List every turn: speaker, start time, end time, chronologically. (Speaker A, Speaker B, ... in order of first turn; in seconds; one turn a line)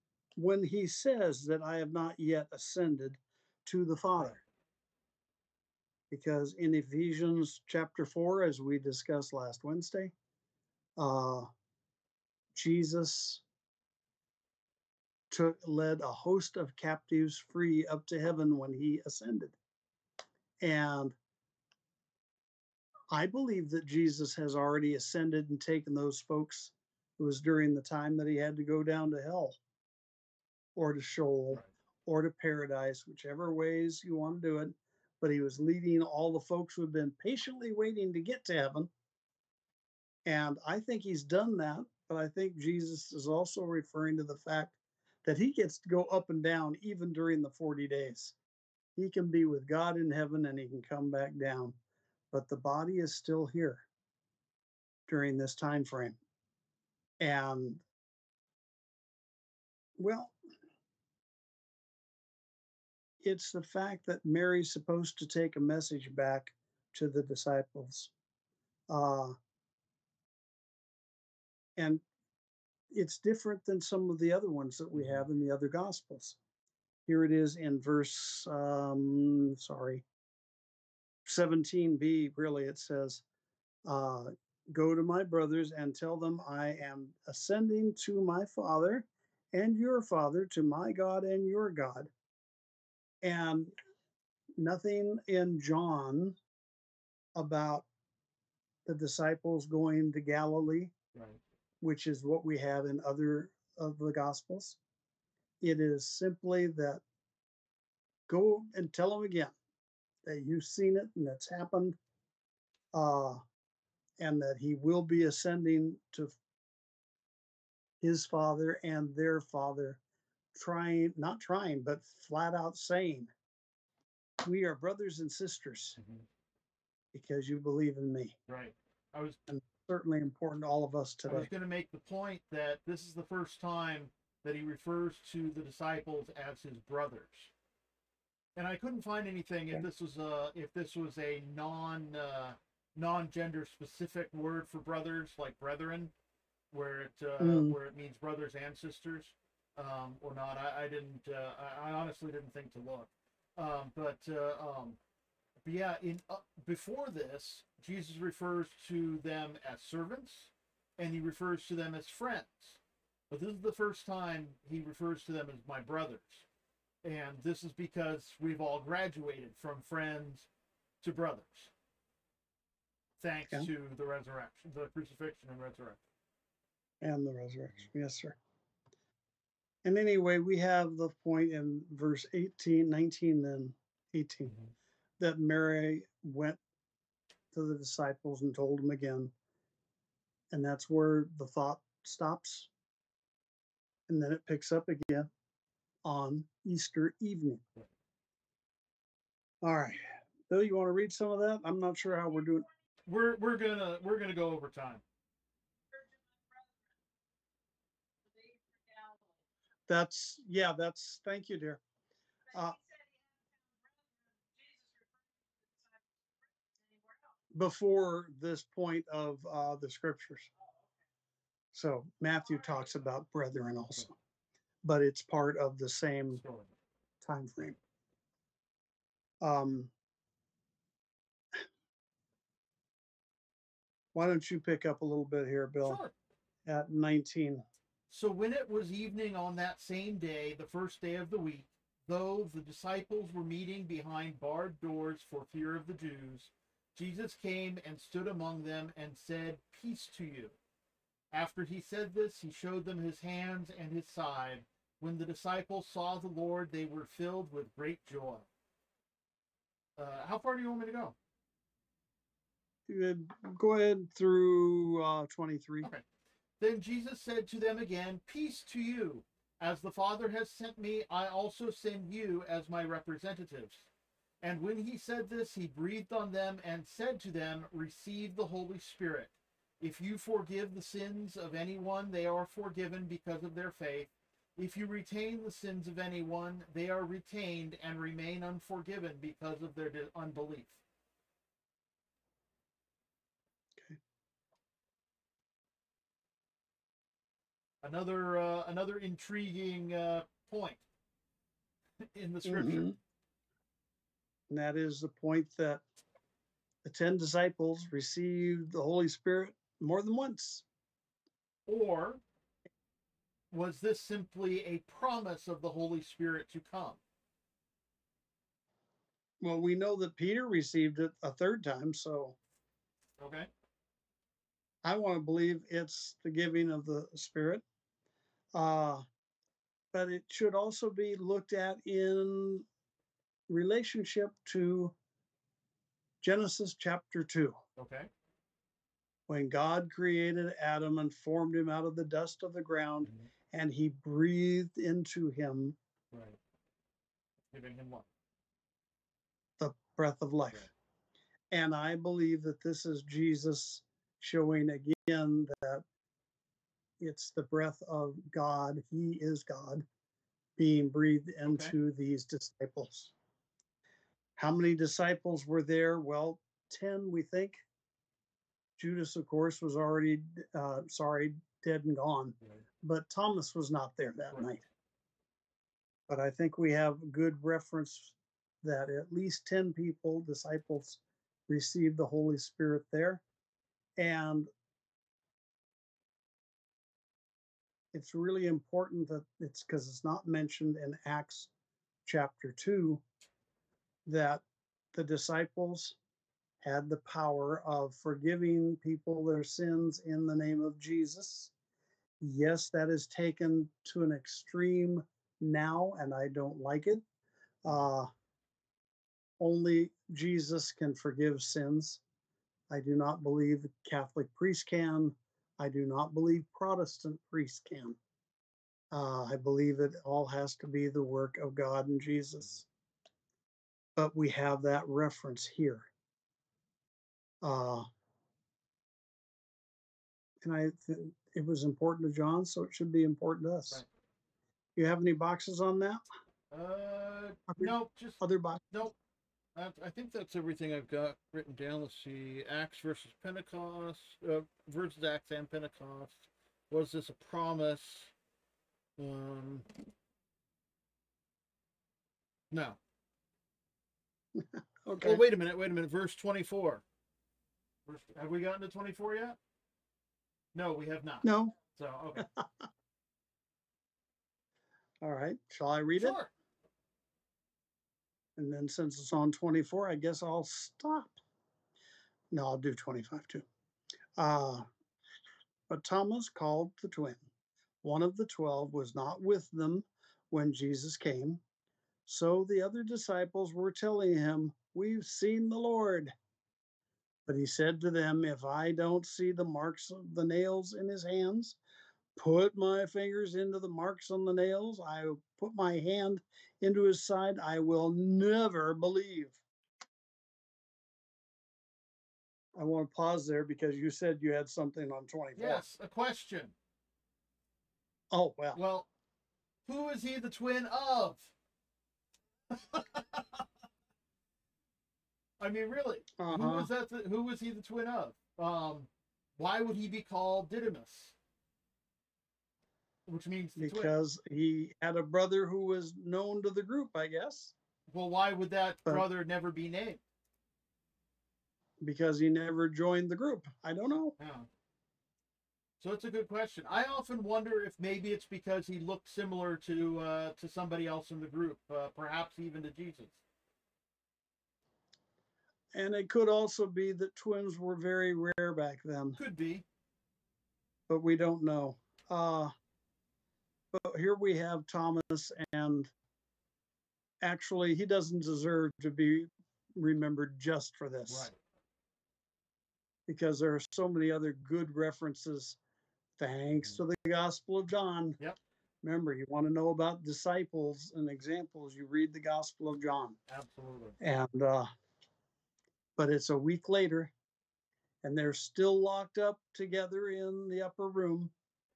Speaker A: 0.4-4.4
Speaker A: 6.1-10.1
Speaker A: 11.0-11.5
Speaker A: 12.6-13.4
Speaker A: 15.3-19.6
Speaker A: 20.6-21.2
Speaker A: 23.1-29.6
Speaker A: 30.8-38.9
Speaker A: 40.3-48.4
Speaker A: 49.0-51.8
Speaker A: 52.3-53.9
Speaker A: 55.1-56.2
Speaker A: 57.2-57.8
Speaker A: 60.0-60.4
Speaker A: 63.2-68.1
Speaker A: 68.9-69.4
Speaker A: 71.8-72.0
Speaker A: 72.9-76.4
Speaker A: 77.1-80.0
Speaker A: 81.3-83.2
Speaker A: 83.9-92.1
Speaker A: 93.2-93.7
Speaker A: 94.6-96.4
Speaker A: 97.4-97.9
Speaker A: 98.9-100.9
Speaker B: 101.2-101.4
Speaker A: 101.8-104.8
Speaker A: 105.6-107.0
Speaker A: 108.3-109.5
Speaker A: 110.2-112.0
Speaker A: 112.9-113.4
Speaker A: 114.2-116.4
Speaker A: 118.0-120.0
Speaker A: 120.5-123.3
Speaker A: 124.4-126.0
Speaker B: 126.0-126.2
Speaker A: 127.1-128.4
Speaker B: 128.5-129.4
Speaker A: 129.5-131.5
Speaker B: 131.3-137.5
Speaker B: 138.6-146.1
Speaker B: 146.7-155.0
Speaker A: 147.4-147.8
Speaker B: 155.7-162.8
Speaker B: 163.3-166.4
Speaker B: 167.0-170.5
Speaker B: 171.0-171.7
Speaker B: 173.2-176.0
Speaker A: 177.0-178.4
Speaker A: 179.8-184.5
Speaker A: 185.2-186.6
Speaker A: 187.5-189.3
Speaker A: 190.5-192.7
Speaker A: 194.1-195.3
Speaker A: 196.0-197.6
Speaker A: 199.6-202.7
Speaker B: 203.1-205.0
Speaker A: 209.9-211.8
Speaker A: 212.5-212.8
Speaker A: 217.5-220.5
Speaker A: 221.7-224.1
Speaker A: 224.8-226.4
Speaker B: 226.3-226.7
Speaker A: 227.2-227.8
Speaker A: 229.4-229.9
Speaker A: 234.1-236.0
Speaker B: 235.8-236.1
Speaker A: 236.7-237.6
Speaker B: 238.1-250.6
Speaker B: 251.3-258.5
Speaker B: 260.0-261.2
Speaker A: 262.9-265.9
Speaker B: 266.6-273.9
Speaker B: 274.4-290.8
Speaker B: 297.8-300.8
Speaker B: 302.1-302.9
Speaker A: 302.5-303.0
Speaker A: 304.5-305.8
Speaker A: 306.8-310.7
Speaker B: 311.7-312.2
Speaker B: 313.5-317.0
Speaker A: 319.4-322.4
Speaker B: 323.2-323.5
Speaker A: 324.8-327.6
Speaker A: 328.6-329.0
Speaker A: 329.9-332.7
Speaker A: 333.5-334.9
Speaker A: 336.2-337.6
Speaker B: 337.8-338.1
Speaker A: 339.3-345.8
Speaker B: 343.0-343.3
Speaker B: 346.1-346.4
Speaker B: 347.5-348.1
Speaker A: 349.6-350.7
Speaker A: 351.5-355.8
Speaker A: 357.0-359.9
Speaker A: 360.6-363.1
Speaker B: 361.5-361.7
Speaker A: 364.4-367.6
Speaker A: 368.8-374.6
Speaker B: 374.3-374.6
Speaker A: 376.1-383.2
Speaker A: 384.0-384.5
Speaker A: 387.9-391.5
Speaker A: 392.1-393.0
Speaker A: 394.1-396.0
Speaker A: 396.6-401.5
Speaker A: 402.2-407.0
Speaker A: 407.6-408.1
Speaker A: 409.4-412.0
Speaker A: 412.7-418.0
Speaker A: 418.9-422.7
Speaker A: 424.0-425.9
Speaker A: 427.4-427.9
Speaker A: 430.4-433.8
Speaker A: 434.8-436.0
Speaker B: 436.5-438.2
Speaker A: 437.5-438.7
Speaker B: 438.7-439.0
Speaker B: 439.6-448.1
Speaker B: 449.0-449.7
Speaker B: 452.5-452.8
Speaker A: 454.4-455.2
Speaker B: 454.9-456.8
Speaker B: 457.9-459.4
Speaker B: 460.5-462.3
Speaker A: 461.2-461.6
Speaker A: 462.2-462.5
Speaker A: 465.0-466.2
Speaker B: 466.0-466.3
Speaker A: 468.4-471.2
Speaker A: 472.3-473.5
Speaker A: 474.2-474.7
Speaker A: 475.7-477.3
Speaker A: 477.8-481.4
Speaker A: 482.1-486.1
Speaker A: 487.3-491.6
Speaker A: 492.2-499.4
Speaker A: 502.6-505.6
Speaker B: 505.4-506.6
Speaker A: 508.1-508.6
Speaker B: 508.6-508.9
Speaker B: 509.7-511.3
Speaker B: 512.5-513.4
Speaker B: 515.4-521.1
Speaker A: 516.2-516.7
Speaker B: 523.1-523.9
Speaker A: 523.6-527.5
Speaker B: 527.9-530.0
Speaker A: 531.8-534.1
Speaker B: 534.2-534.5
Speaker B: 535.8-543.2
Speaker A: 545.7-549.2
Speaker B: 549.2-549.6
Speaker A: 550.9-552.5
Speaker A: 553.7-555.9
Speaker A: 557.2-561.3
Speaker B: 561.1-561.4
Speaker A: 563.1-565.6
Speaker A: 566.2-568.2
Speaker A: 568.8-573.2
Speaker B: 573.3-574.0
Speaker A: 574.0-574.7
Speaker A: 576.0-577.1
Speaker A: 578.0-581.3